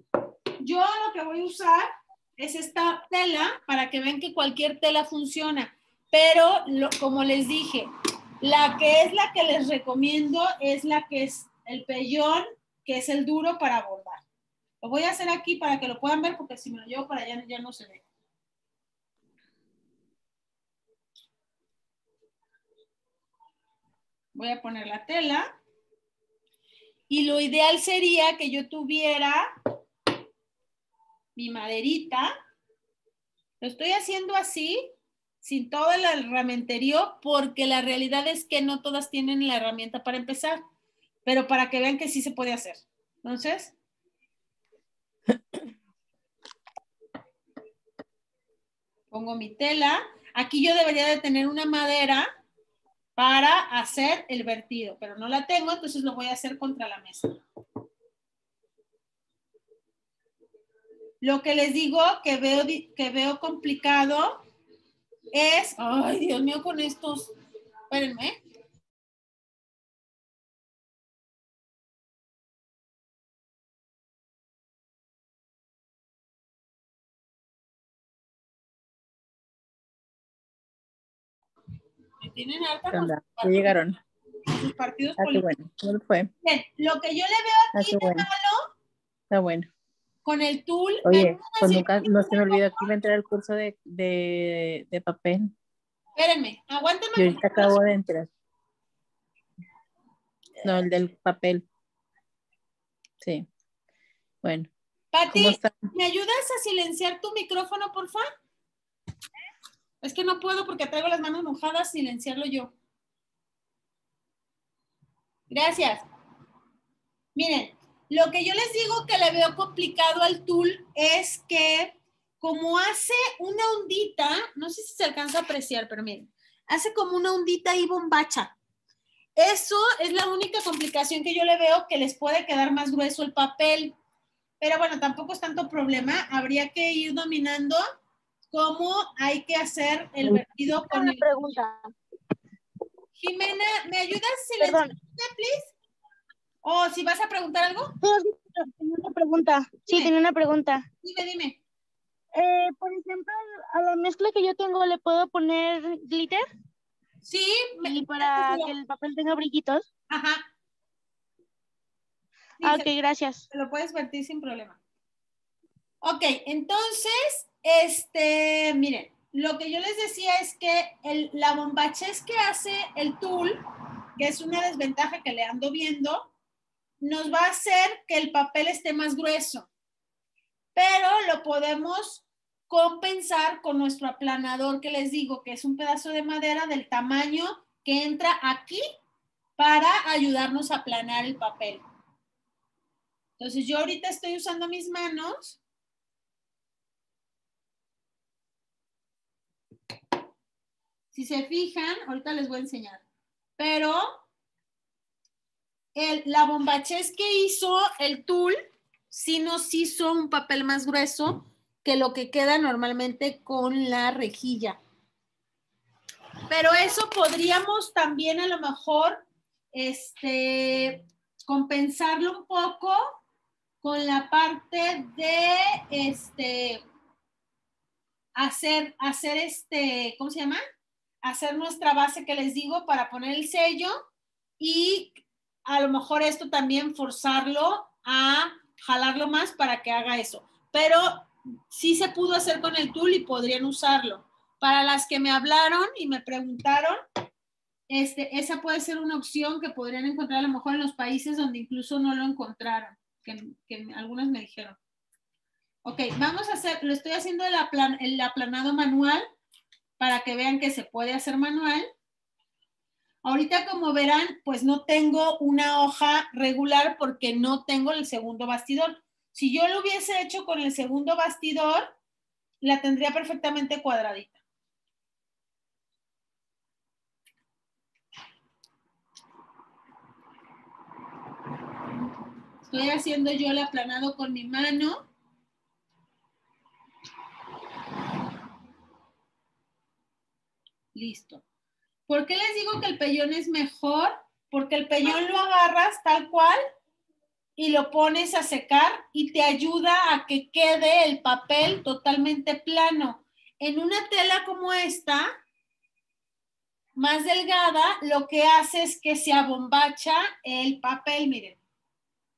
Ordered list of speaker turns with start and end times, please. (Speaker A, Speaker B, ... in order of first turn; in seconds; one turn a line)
Speaker A: 0.6-7.9
Speaker A: 8.4-14.2
Speaker A: 14.8-18.0
Speaker A: 24.3-25.5
Speaker A: 27.1-29.5
Speaker A: 31.4-32.3
Speaker A: 33.6-34.9
Speaker A: 35.4-40.6
Speaker A: 41.2-43.7
Speaker A: 49.1-52.3
Speaker A: 53.2-57.4
Speaker A: 61.2-64.4
Speaker A: 65.3-67.3
Speaker A: 67.9-68.4
Speaker A: 82.2-83.8
Speaker B: 82.9-84.0
Speaker A: 84.5-85.5
Speaker B: 85.2-86.3
Speaker A: 86.4-88.7
Speaker B: 87.7-88.3
Speaker B: 89.3-89.7
Speaker A: 90.2-92.9
Speaker B: 91.0-95.5
Speaker A: 96.2-97.8
Speaker B: 97.2-98.3
Speaker B: 100.6-101.7
Speaker B: 103.2-103.5
Speaker B: 104.4-104.7
Speaker A: 105.1-108.2
Speaker B: 105.3-105.8
Speaker A: 110.0-112.7
Speaker A: 115.5-116.0
Speaker A: 117.3-128.5
Speaker A: 129.4-133.9
Speaker A: 134.6-137.8
Speaker A: 138.5-141.3
Speaker C: 140.8-141.9
Speaker A: 143.2-145.7
Speaker C: 144.6-144.9
Speaker A: 146.6-147.9
Speaker C: 148.0-150.8
Speaker A: 151.0-151.6
Speaker C: 152.3-156.4
Speaker A: 157.2-158.7
Speaker C: 157.8-159.9
Speaker A: 160.1-160.4
Speaker A: 162.6-162.9
Speaker C: 162.6-163.4
Speaker A: 163.5-164.8
Speaker A: 166.0-173.6
Speaker A: 174.2-176.3
Speaker A: 177.0-179.7
Speaker A: 180.7-188.8
Speaker A: 189.6-191.8
Speaker A: 193.4-195.6
Speaker A: 201.1-203.0
Speaker A: 203.6-204.2
Speaker A: 205.9-208.6
Speaker A: 209.1-214.8
Speaker A: 216.5-223.2
Speaker A: 223.8-226.8
Speaker A: 228.3-230.6
Speaker A: 231.2-233.9
Speaker A: 234.6-247.0
Speaker A: 247.9-254.8
Speaker A: 255.8-259.2
Speaker A: 260.0-261.9
Speaker A: 263.2-271.9
Speaker A: 272.6-274.4
Speaker A: 282.6-285.1
Speaker A: 290.9-291.4
Speaker A: 292.1-296.6
Speaker A: 297.6-305.3
Speaker A: 307.0-311.6